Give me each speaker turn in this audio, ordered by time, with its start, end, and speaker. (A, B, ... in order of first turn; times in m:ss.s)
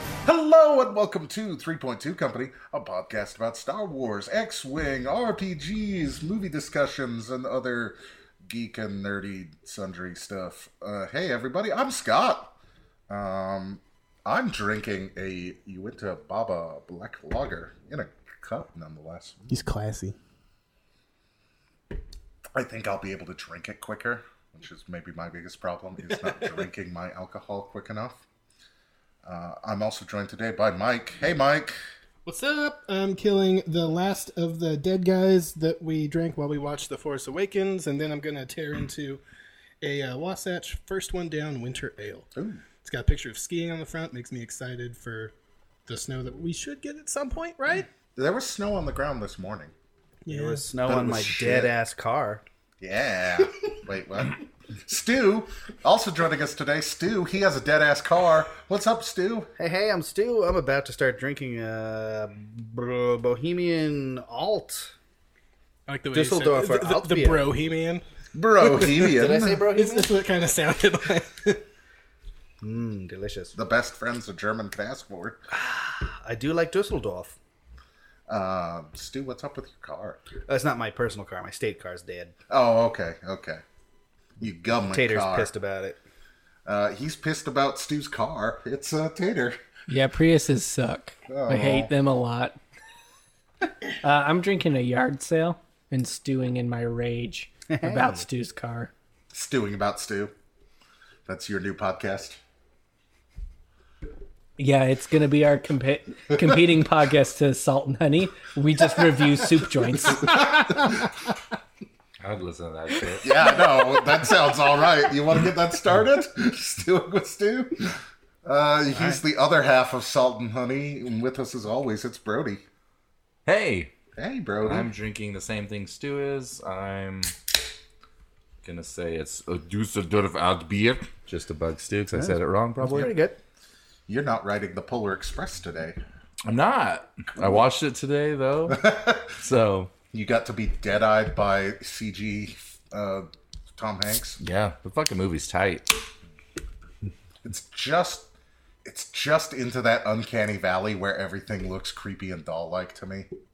0:00.2-0:12.6 A
0:13.1-0:19.7 A
0:19.5-0:20.2 B
0:22.6-0:28.2 A
0:29.2-0:31.8 A
0:32.3-0:39.2 B
0:39.8-0:45.3 B
0:42.4-0:42.6 A
0:45.9-0:47.9 B
0:48.2-0:49.7 A
0:50.2-0:50.7 B
0:50.3-0:52.4 C
0:50.8-0:51.7 A
0:52.8-0:59.5 A
0:59.6-1:04.9 C
1:05.9-1:08.0 B
1:06.1-1:07.5 C
1:08.3-1:09.6 A
1:08.9-1:10.1 C
1:09.7-1:11.6 B
1:12.6-1:13.5 C
1:13.6-1:15.4 A
1:15.5-1:17.4 C
1:18.3-1:20.2 A
1:20.5-1:22.4 C
1:22.5-1:23.6 A
1:24.4-1:25.5 A
1:24.9-1:26.0 C
1:26.6-1:29.6 A
1:29.9-1:32.6 D
1:31.3-1:31.9 A
1:34.0-1:38.9 D
1:37.7-1:38.2 C
1:39.3-1:40.3 A
1:41.3-1:42.4 A
1:44.6-1:50.4 D
1:50.3-1:50.9 A
1:52.2-1:53.3 E
1:53.2-2:02.6 A
1:58.9-1:59.2 C
2:03.5-2:03.9 E
2:04.2-2:04.9 A
2:04.6-2:07.4 E
2:08.6-2:13.1 E
2:12.1-2:13.4 C
2:14.1-2:16.0 A
2:16.5-2:19.9 E
2:17.4-2:17.6 A
2:18.7-2:19.3 A
2:20.1-2:24.4 A
2:24.4-2:26.0 E
2:27.4-2:28.3 A
2:28.8-2:33.3 A